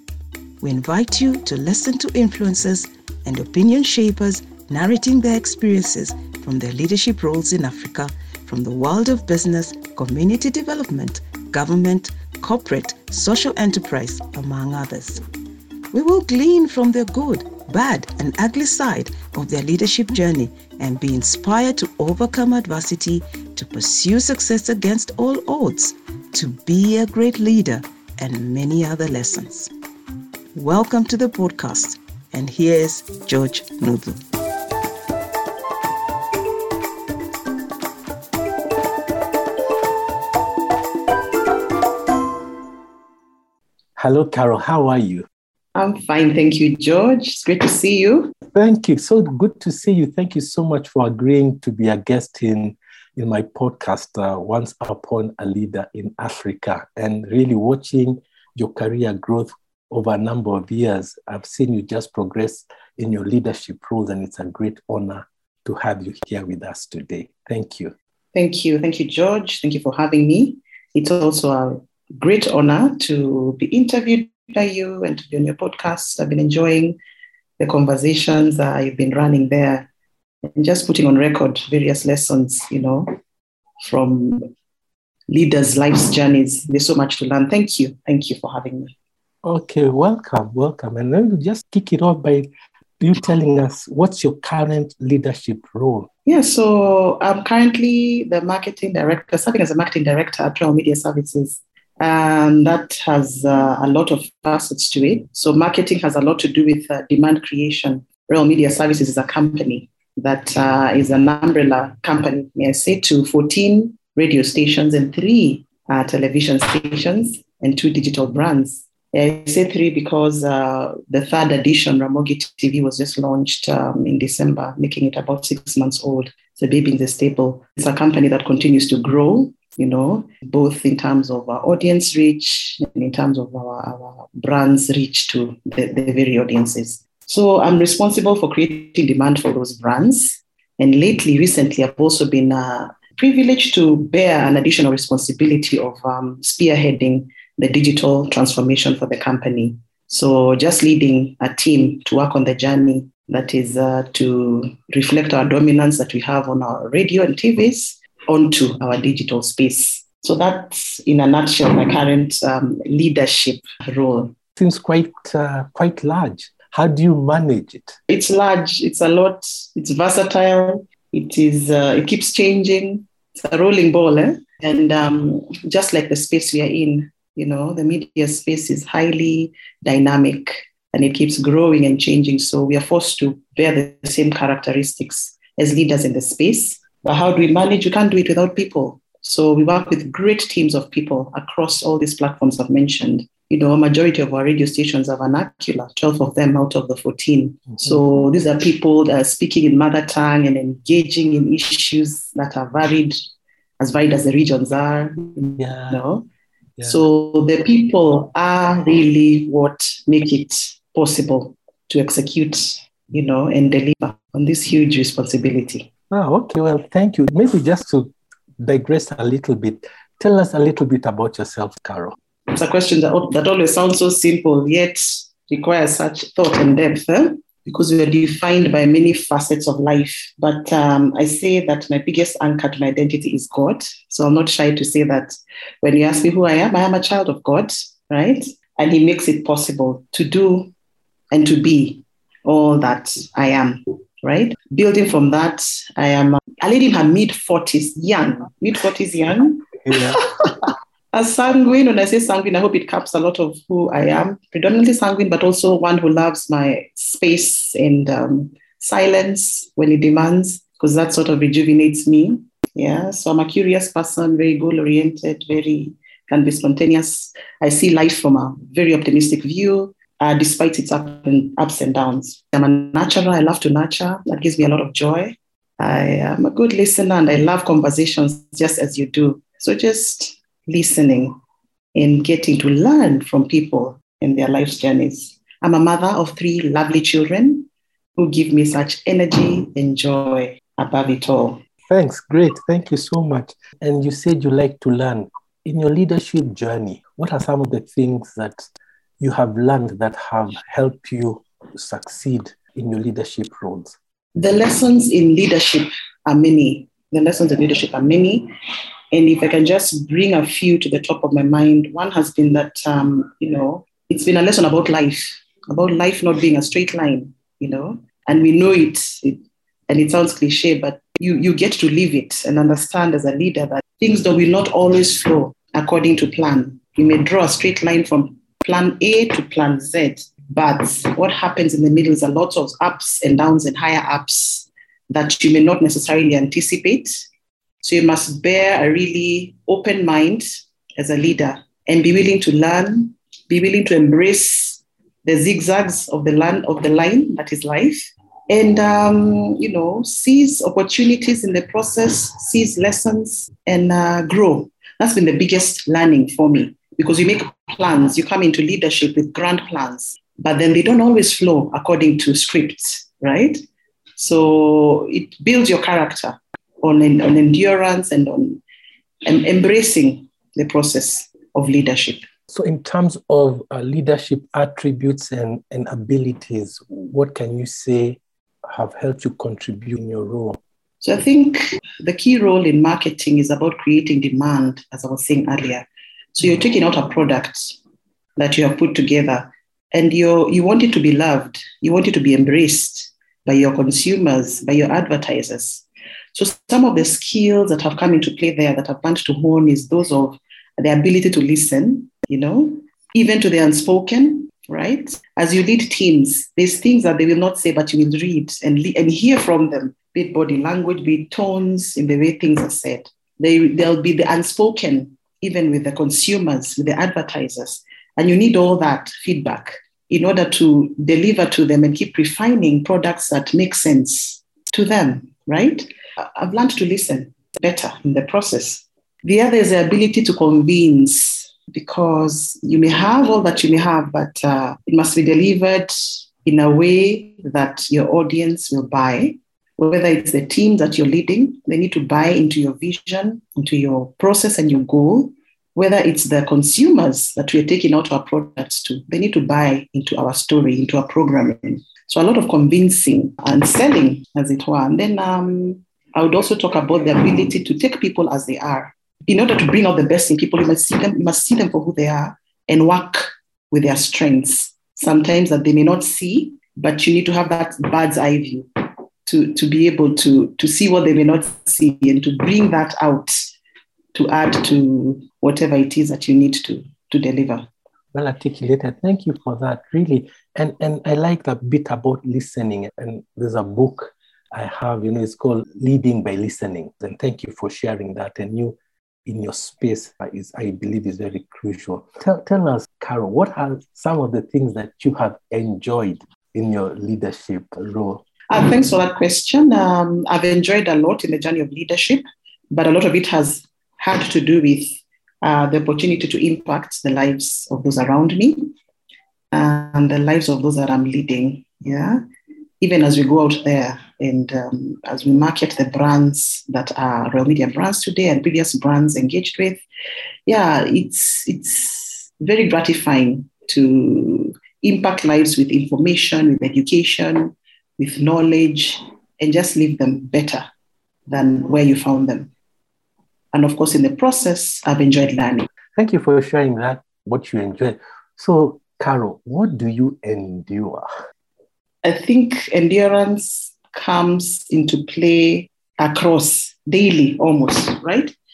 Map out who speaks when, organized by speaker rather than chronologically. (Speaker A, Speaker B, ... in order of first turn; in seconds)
Speaker A: 0.6-15.2, 15.9-29.7, 30.5-34.2
Speaker B: 44.0-45.3, 48.5-67.9, 89.4-92.5, 93.0-96.1, 164.6-168.0, 205.6-206.0, 216.1-222.2, 249.9-250.2, 291.9-298.7, 299.2-304.0, 372.5-380.6, 478.1-498.2, 536.0-541.1
Speaker C: 45.8-48.4, 68.3-77.0, 77.6-79.9, 80.6-83.1, 83.8-84.5, 85.3-88.9, 96.3-164.3, 168.1-203.2, 203.8-206.3, 206.8-215.9, 222.5-240.7, 241.3-281.4, 281.9-291.6, 304.4-308.5, 309.1-337.3, 337.8-363.6, 364.2-368.6, 369.2-372.2, 381.0-387.8, 388.4-468.7, 469.3-473.4, 474.1-477.7, 498.5-508.7, 509.5-512.2, 512.8-519.8, 520.5-530.7, 531.3-532.5, 533.5-535.7, 542.0-548.4